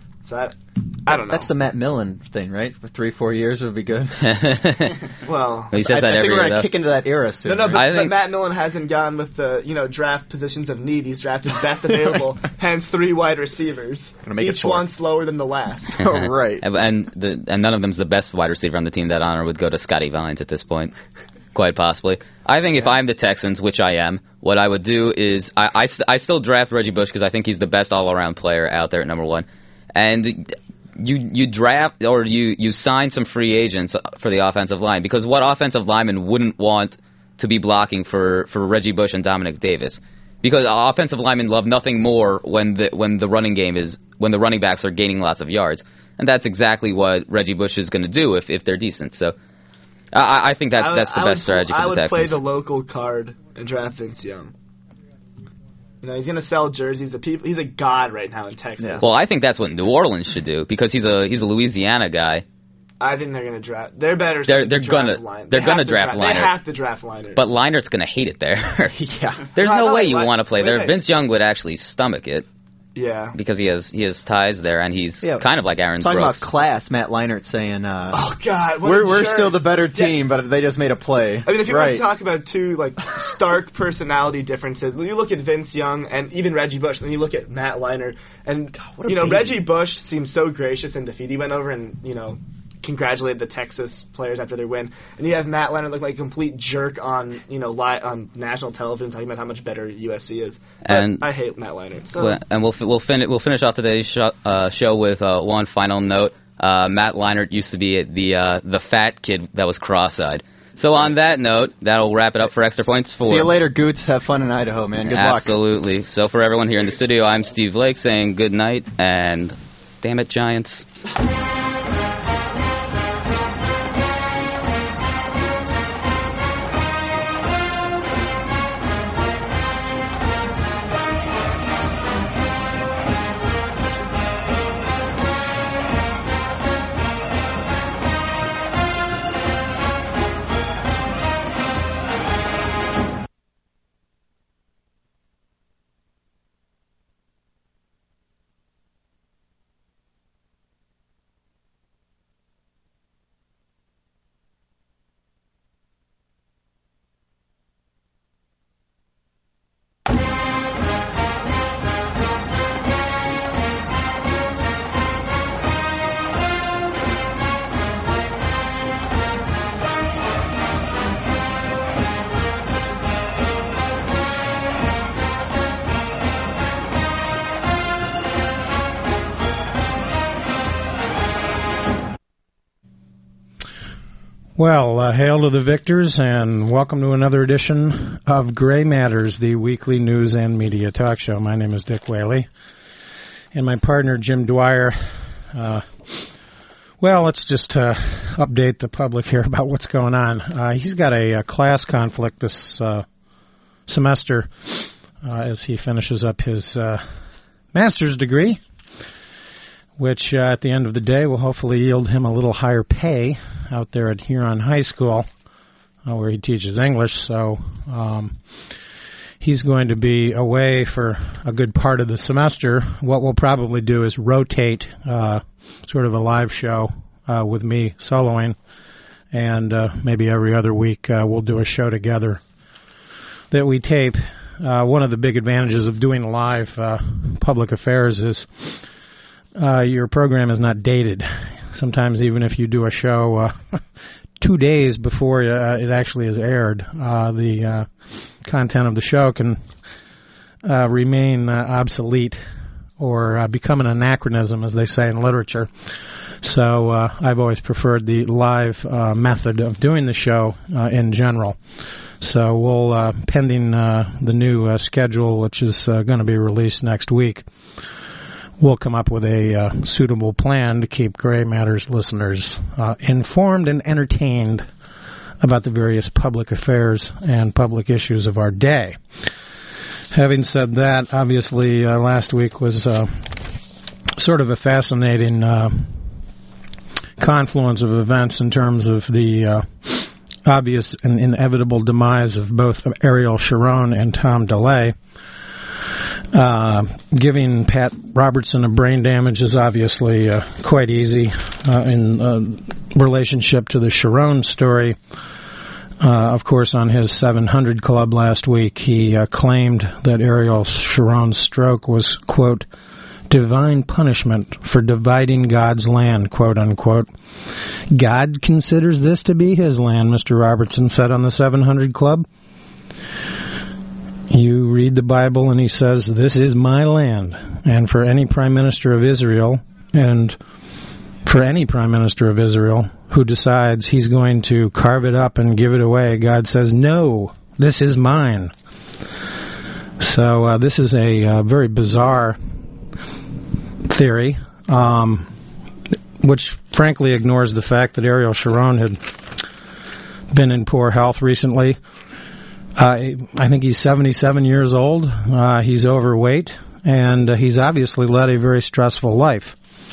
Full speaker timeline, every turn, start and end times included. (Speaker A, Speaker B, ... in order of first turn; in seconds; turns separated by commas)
Speaker A: 0.2-1.5, Speaker B: 1.1-4.2, Speaker C: 4.2-5.0, Speaker A: 5.2-5.8, Speaker C: 5.7-6.7, Speaker B: 5.8-7.8, Speaker A: 7.4-16.0, Speaker C: 7.7-8.1, Speaker B: 14.2-14.9, Speaker B: 16.0-16.6, Speaker C: 16.0-20.9, Speaker C: 21.5-49.3, Speaker C: 50.1-52.4, Speaker A: 50.8-54.5, Speaker A: 56.0-59.1, Speaker C: 59.0-62.4, Speaker A: 63.0-67.4, Speaker C: 64.5-66.6, Speaker C: 67.4-69.0, Speaker B: 68.9-69.5, Speaker A: 69.5-71.0, Speaker C: 69.5-72.5, Speaker A: 72.9-73.3, Speaker C: 73.3-76.5, Speaker B: 76.0-82.0, Speaker A: 78.1-80.2, Speaker A: 81.4-102.4, Speaker B: 88.8-89.6, Speaker C: 100.9-101.2, Speaker C: 102.2-113.5, Speaker B: 113.2-115.5, Speaker C: 115.1-120.9, Speaker D: 184.6-192.5, Speaker D: 193.5-195.0, Speaker D: 195.5-196.3, Speaker D: 197.0-203.1, Speaker D: 203.9-207.0, Speaker D: 207.7-208.6, Speaker D: 210.0-215.3, Speaker D: 216.1-218.4, Speaker D: 219.4-228.6, Speaker D: 229.3-232.4, Speaker D: 233.5-238.8, Speaker D: 239.6-243.8, Speaker D: 244.4-247.9, Speaker D: 248.4-249.6, Speaker D: 250.6-252.4, Speaker D: 253.0-255.7, Speaker D: 256.4-261.6, Speaker D: 262.2-267.5, Speaker D: 268.6-274.7, Speaker D: 275.4-279.0, Speaker D: 280.1-283.6, Speaker D: 284.2-286.0, Speaker D: 287.2-294.9, Speaker D: 296.3-305.0, Speaker D: 306.0-312.7, Speaker D: 313.3-322.3, Speaker D: 324.3-330.4, Speaker D: 331.2-338.5, Speaker D: 340.0-342.4, Speaker D: 343.8-345.3, Speaker D: 346.2-349.0, Speaker D: 350.3-351.8, Speaker D: 352.8-359.6